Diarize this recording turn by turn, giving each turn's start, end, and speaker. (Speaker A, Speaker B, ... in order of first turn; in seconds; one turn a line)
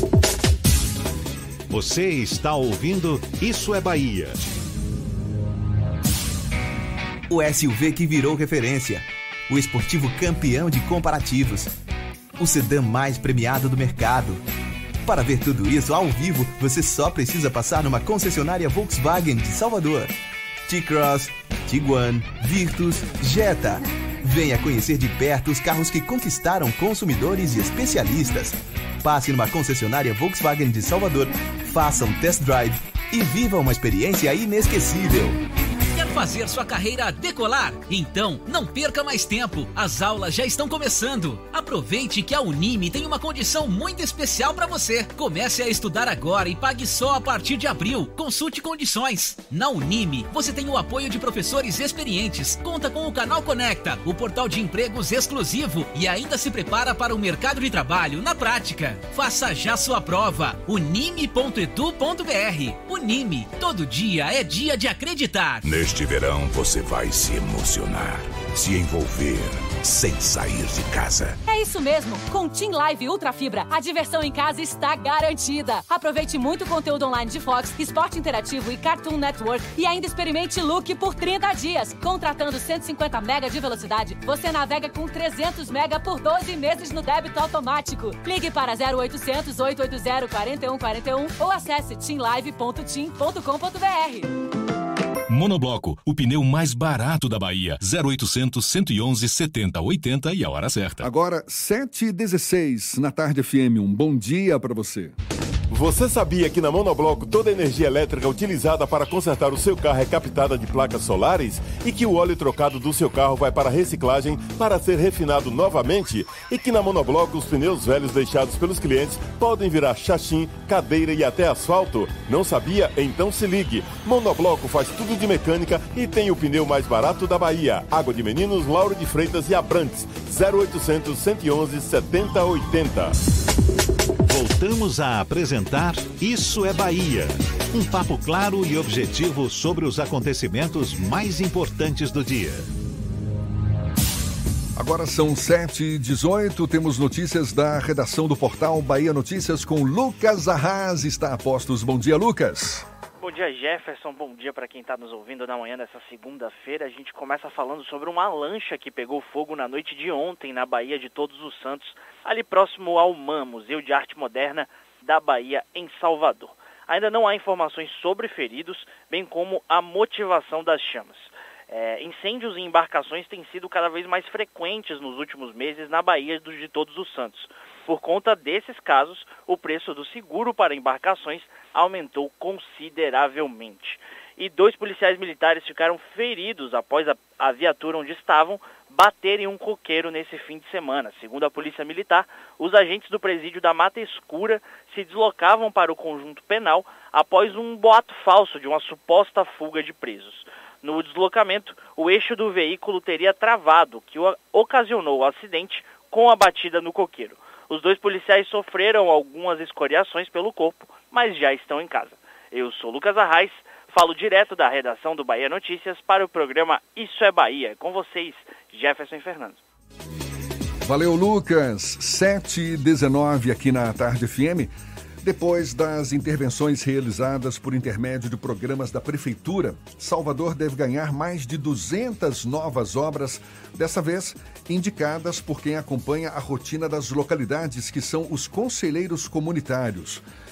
Speaker A: 1.7-4.5
Speaker B: 7.3-11.7
Speaker B: 12.3-14.4
Speaker B: 15.0-20.1
Speaker B: 20.7-35.4
Speaker C: 35.9-65.7
Speaker D: 65.8-71.3
Speaker E: 71.5-94.3
Speaker F: 95.3-101.0
Speaker G: 101.0-105.1
Speaker H: 105.7-133.2
Speaker A: 134.2-142.7
Speaker G: 144.8-152.8
Speaker I: 153.2-219.6
Speaker G: 220.8-240.2